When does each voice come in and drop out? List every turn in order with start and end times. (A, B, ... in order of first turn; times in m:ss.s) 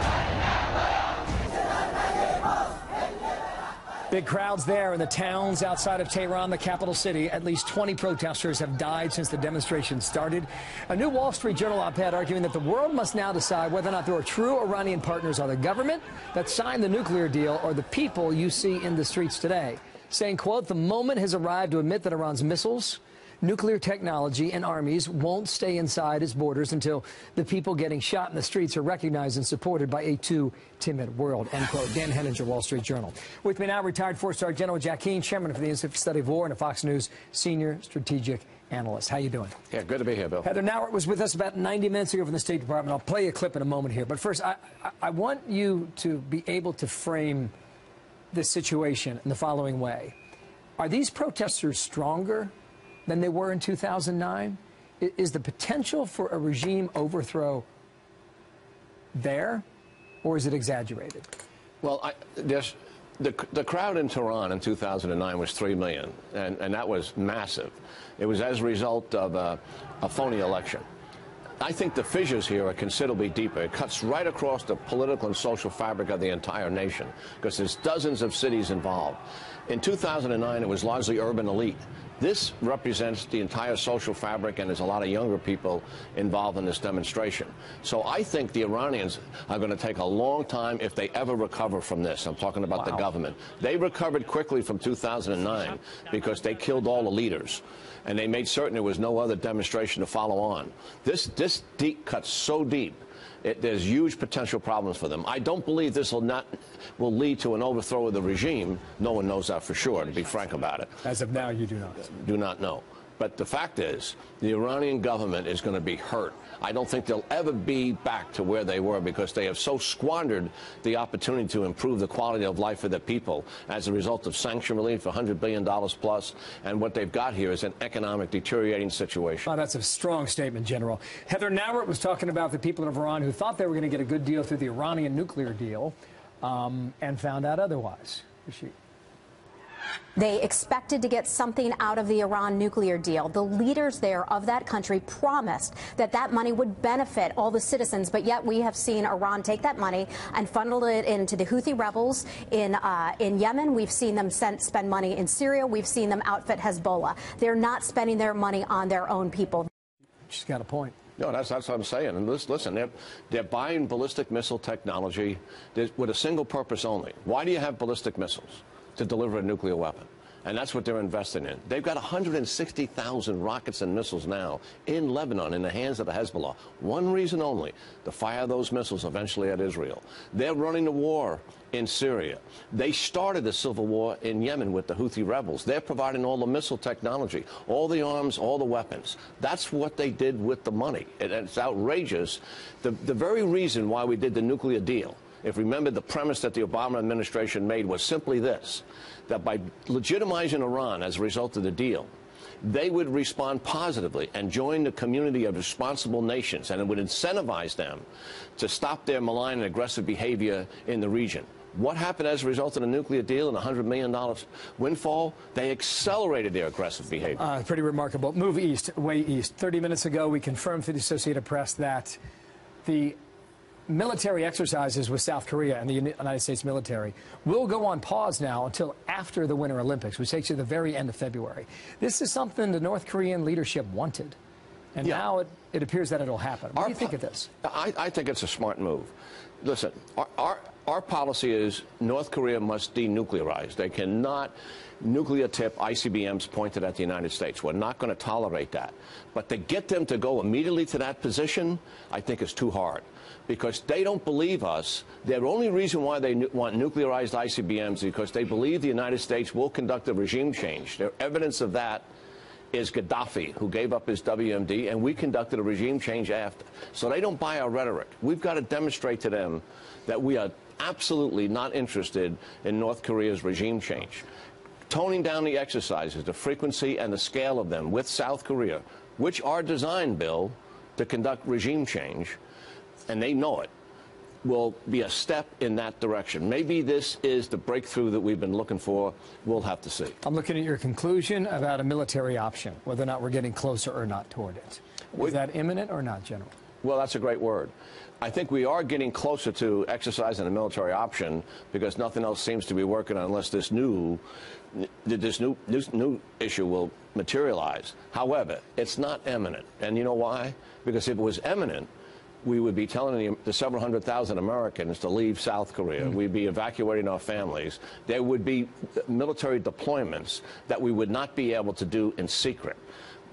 0:04.1-0:39.6 A
0:39.7-0:40.5 B
0:40.4-0:47.5 A
0:48.3-0:50.1 A
0:50.8-0:52.5 A
0:53.1-0:57.6 A
0:59.1-0:59.6 A
1:00.2-1:01.3 A
1:01.8-1:10.8 B
1:11.6-1:51.0 B
1:51.0-1:52.1 A
1:52.0-2:09.5 B
2:09.5-2:18.7 A
2:20.2-2:39.7 C
2:40.3-2:40.9 A
2:41.2-3:22.1 B
3:22.6-3:28.0 B
3:28.6-3:37.4 B
3:37.4-3:42.2 A
3:42.8-3:43.2 A
3:43.9-3:54.4 A
3:54.9-3:57.5 A
3:56.8-4:22.0 B
4:22.7-4:34.2 B
4:34.9-4:42.4 B
4:43.1-4:43.7 B
4:44.4-4:50.2 B
4:50.2-4:56.5 A
4:56.8-5:04.2 B
5:04.7-5:11.9 B
5:12.4-5:22.8 B